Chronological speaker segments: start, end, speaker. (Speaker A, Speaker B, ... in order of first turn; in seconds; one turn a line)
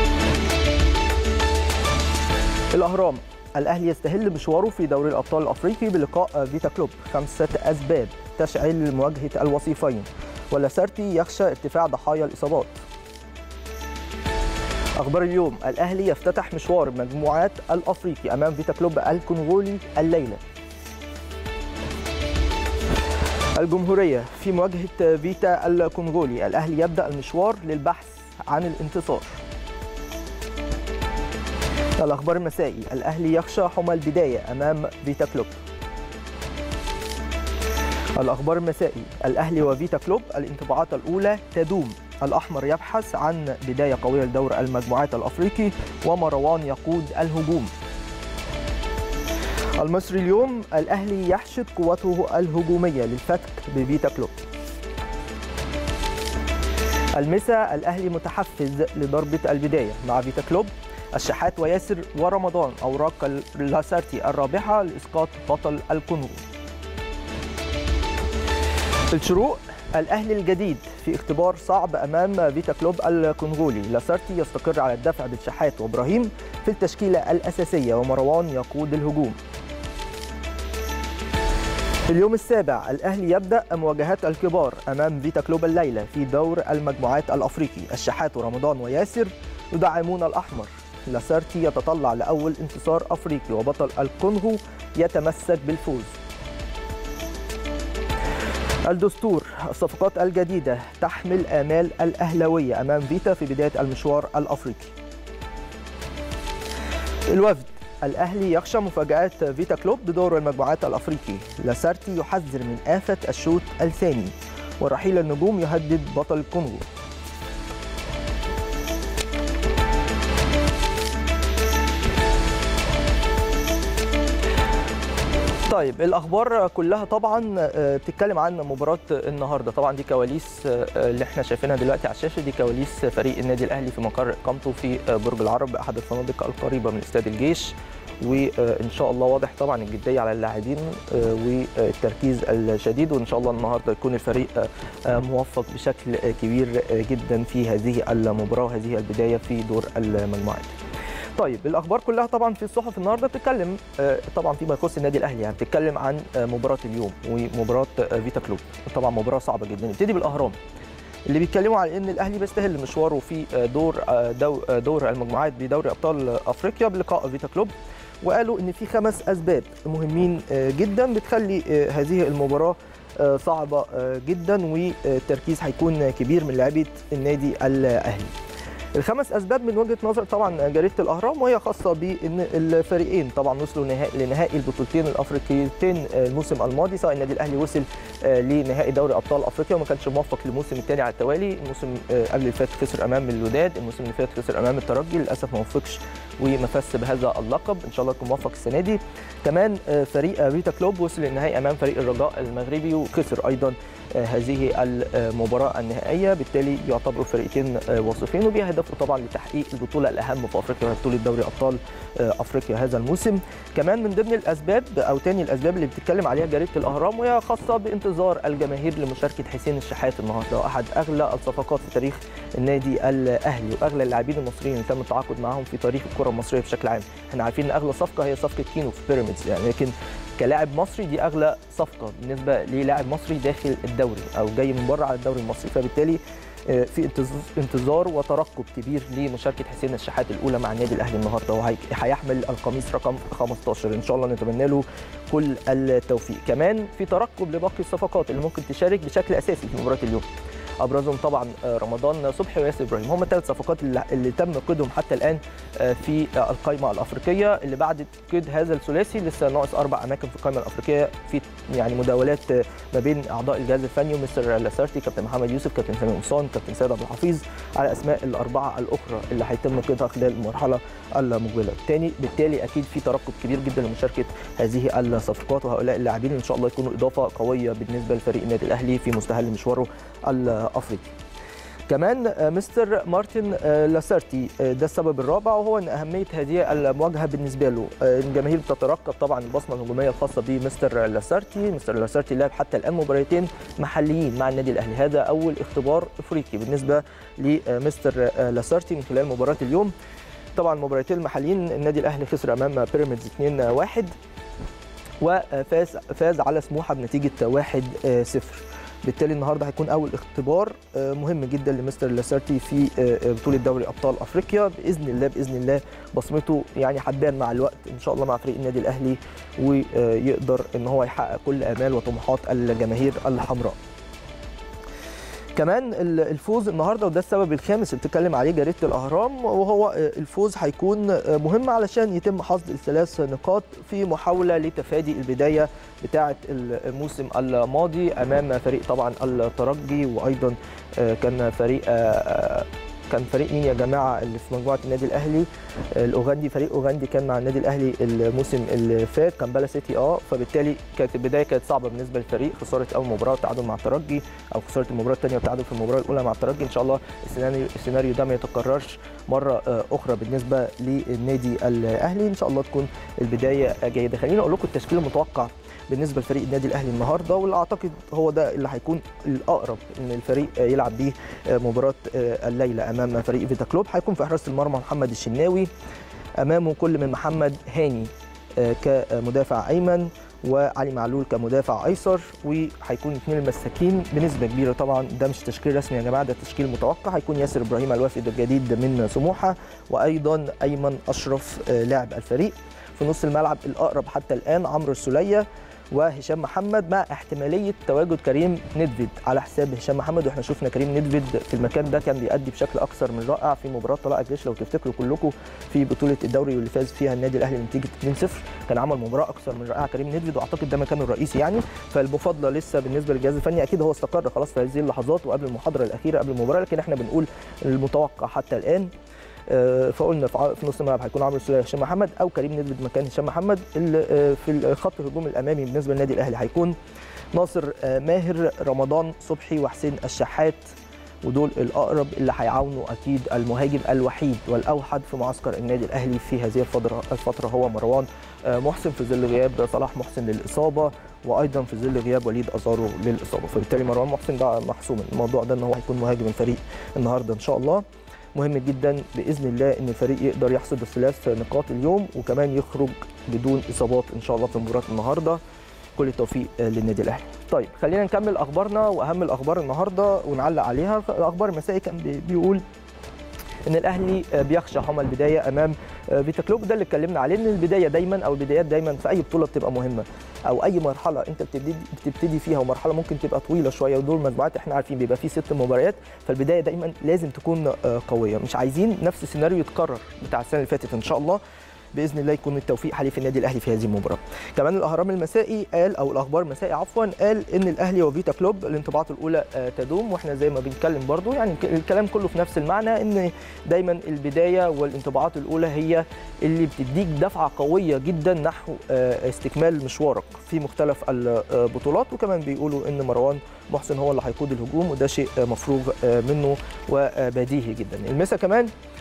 Speaker A: 2.7-12.8
Speaker A: 14.9-20.4
Speaker A: 23.5-29.4
Speaker A: 32.0-35.6
Speaker A: 38.1-47.7
Speaker A: 49.8-54.3
Speaker A: 57.1-66.4
Speaker A: 69.1-79.4
Speaker A: 82.1-96.2
Speaker A: 98.8-104.9
Speaker A: 107.3-116.8
Speaker A: 125.7-150.8
Speaker A: 151.4-160.6
Speaker A: 161.3-178.3
Speaker A: 178.9-250.3
Speaker A: 250.8-281.1
Speaker A: 281.9-299.9
Speaker A: 300.6-304.1
Speaker A: 305.2-323.8
Speaker A: 325.5-375.7
Speaker A: 376.4-418.9
Speaker A: 419.5-426.7
Speaker A: 427.3-430.6
Speaker A: 431.2-447.8
Speaker A: 448.3-455.4
Speaker A: 455.9-462.6
Speaker A: 463.6-481.4
Speaker A: 481.9-508.7